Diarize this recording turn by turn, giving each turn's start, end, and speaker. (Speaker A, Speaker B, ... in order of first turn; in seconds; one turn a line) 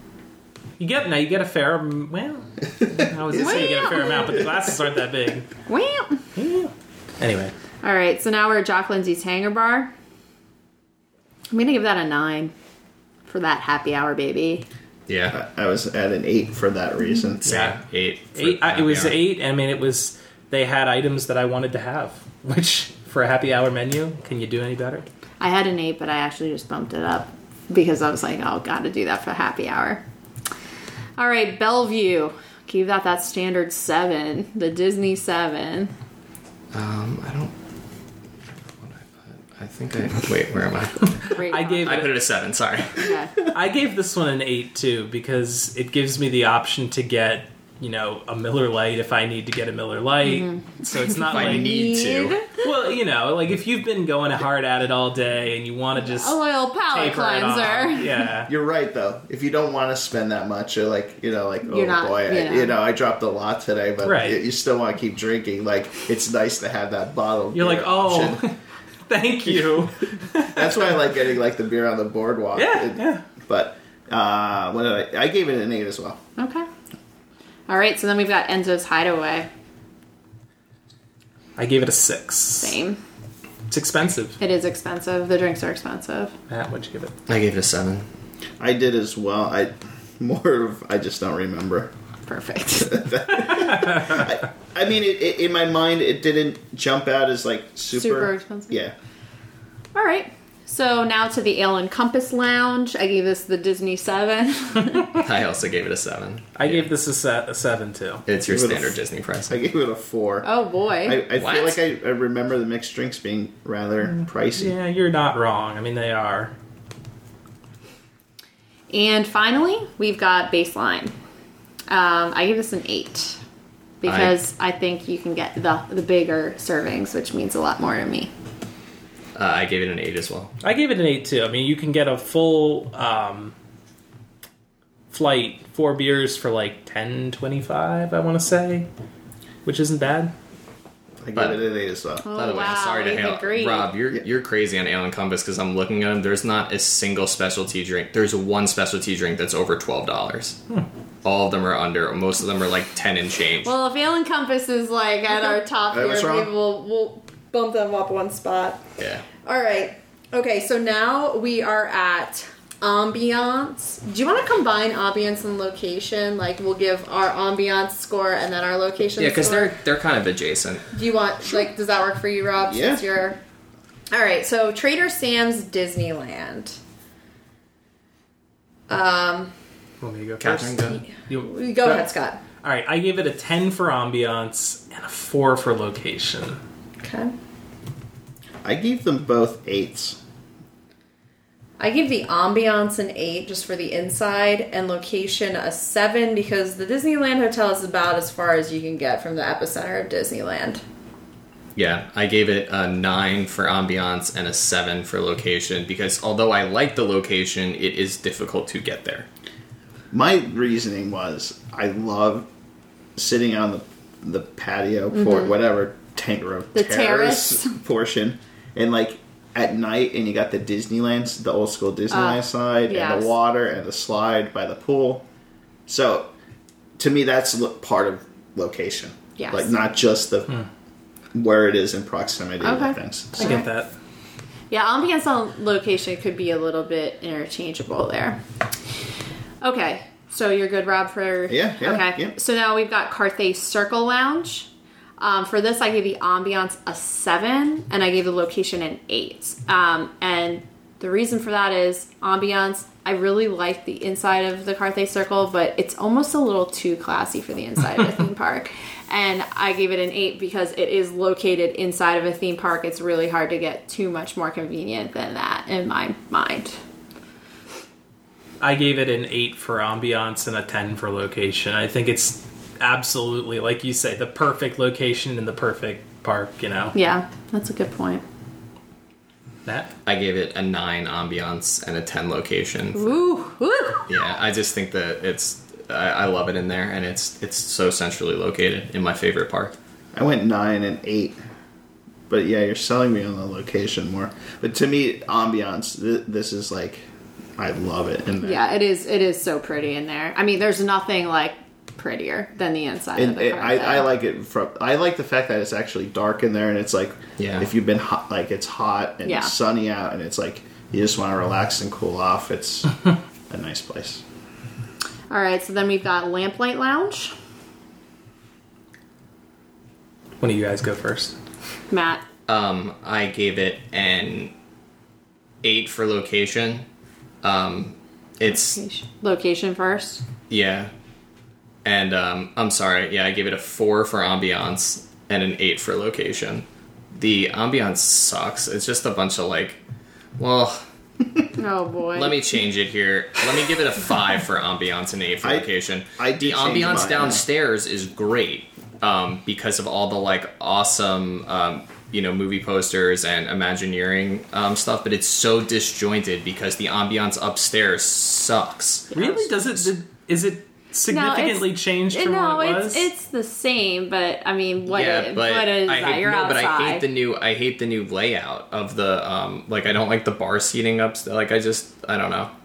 Speaker A: 0.8-5.5
Speaker B: 2.8-4.4
Speaker C: 3.3-4.4
Speaker C: 5.7-6.2
Speaker A: 6.3-7.5
Speaker C: 7.8-9.9
Speaker C: 11.5-12.5
Speaker C: 13.3-14.7
Speaker D: 15.1-15.4
Speaker B: 15.3-17.7
Speaker D: 17.4-19.2
Speaker A: 17.4-17.8
Speaker A: 18.3-25.1
Speaker C: 25.4-30.0
Speaker C: 31.2-35.9
Speaker D: 36.7-37.5
Speaker D: 38.8-43.1
Speaker A: 41.2-42.1
Speaker C: 41.3-42.1
Speaker C: 42.9-43.4
Speaker A: 43.5-51.8
Speaker C: 50.2-52.6
Speaker D: 51.3-52.4
Speaker A: 52.5-58.5
Speaker C: 56.0-58.2
Speaker B: 58.5-68.5
Speaker C: 61.6-62.8
Speaker A: 64.0-64.4
Speaker A: 67.5-71.0
Speaker B: 70.4-76.2
Speaker A: 72.5-73.2
Speaker C: 76.4-76.7
Speaker C: 77.7-79.5
Speaker A: 81.6-82.8
Speaker C: 82.6-83.0
Speaker A: 83.7-84.4
Speaker C: 84.4-86.3
Speaker A: 86.5-87.2
Speaker D: 87.3-88.1
Speaker B: 88.6-91.9
Speaker C: 92.2-93.0
Speaker B: 92.8-98.9
Speaker C: 97.9-98.8
Speaker C: 99.9-105.1
Speaker D: 105.1-106.9
Speaker A: 106.6-108.2
Speaker D: 108.2-109.6
Speaker B: 108.5-110.5
Speaker C: 110.4-111.2
Speaker B: 111.0-114.8
Speaker D: 111.3-111.8
Speaker A: 114.1-116.5
Speaker C: 118.9-121.1
Speaker C: 121.9-123.4
Speaker C: 124.0-128.3
Speaker D: 124.0-124.4
Speaker D: 129.3-130.5
Speaker A: 130.6-133.5
Speaker A: 135.1-138.9
Speaker A: 139.6-140.3
Speaker B: 141.2-142.3
Speaker D: 141.3-141.6
Speaker C: 142.2-143.9
Speaker D: 142.3-150.6
Speaker D: 151.2-153.7
Speaker C: 153.6-158.8
Speaker B: 155.9-156.5
Speaker D: 159.0-159.2
Speaker C: 159.4-169.7
Speaker D: 169.2-170.9
Speaker C: 170.9-173.4
Speaker B: 172.6-173.0
Speaker C: 174.1-176.8
Speaker C: 178.9-179.5
Speaker A: 180.0-182.1
Speaker D: 180.4-181.0
Speaker C: 180.9-182.4
Speaker A: 182.6-186.6
Speaker C: 187.0-187.3
Speaker B: 188.6-190.2
Speaker C: 191.8-200.8
Speaker D: 201.8-209.3
Speaker B: 210.1-212.5
Speaker B: 213.2-225.2
Speaker C: 215.1-215.5
Speaker C: 216.7-217.8
Speaker C: 222.1-223.3
Speaker B: 225.9-226.3
Speaker B: 227.0-230.6
Speaker C: 229.4-229.7
Speaker B: 231.3-233.6
Speaker C: 232.6-233.7
Speaker A: 233.4-233.9
Speaker C: 234.7-238.4
Speaker C: 239.6-266.8
Speaker B: 241.5-242.3
Speaker A: 268.6-276.9
Speaker C: 276.9-278.2
Speaker A: 279.6-279.9
Speaker D: 280.0-283.2
Speaker C: 282.9-284.1
Speaker D: 284.1-289.8
Speaker B: 290.1-291.4
Speaker B: 292.3-297.1
Speaker B: 297.6-298.6
Speaker C: 298.4-304.1
Speaker B: 303.1-313.0
Speaker D: 307.4-307.7
Speaker C: 309.2-309.5
Speaker B: 313.5-314.2
Speaker C: 315.3-317.3
Speaker A: 320.4-321.4
Speaker C: 321.9-322.2
Speaker D: 322.5-324.5
Speaker D: 325.6-326.9
Speaker D: 327.4-328.8
Speaker C: 328.5-330.2
Speaker D: 330.5-330.9
Speaker D: 331.8-339.8
Speaker D: 340.4-340.8
Speaker C: 341.6-342.4
Speaker D: 342.1-359.9
Speaker B: 345.4-347.4
Speaker C: 359.1-359.4
Speaker A: 359.1-363.1
Speaker C: 361.1-367.0
Speaker D: 364.9-372.5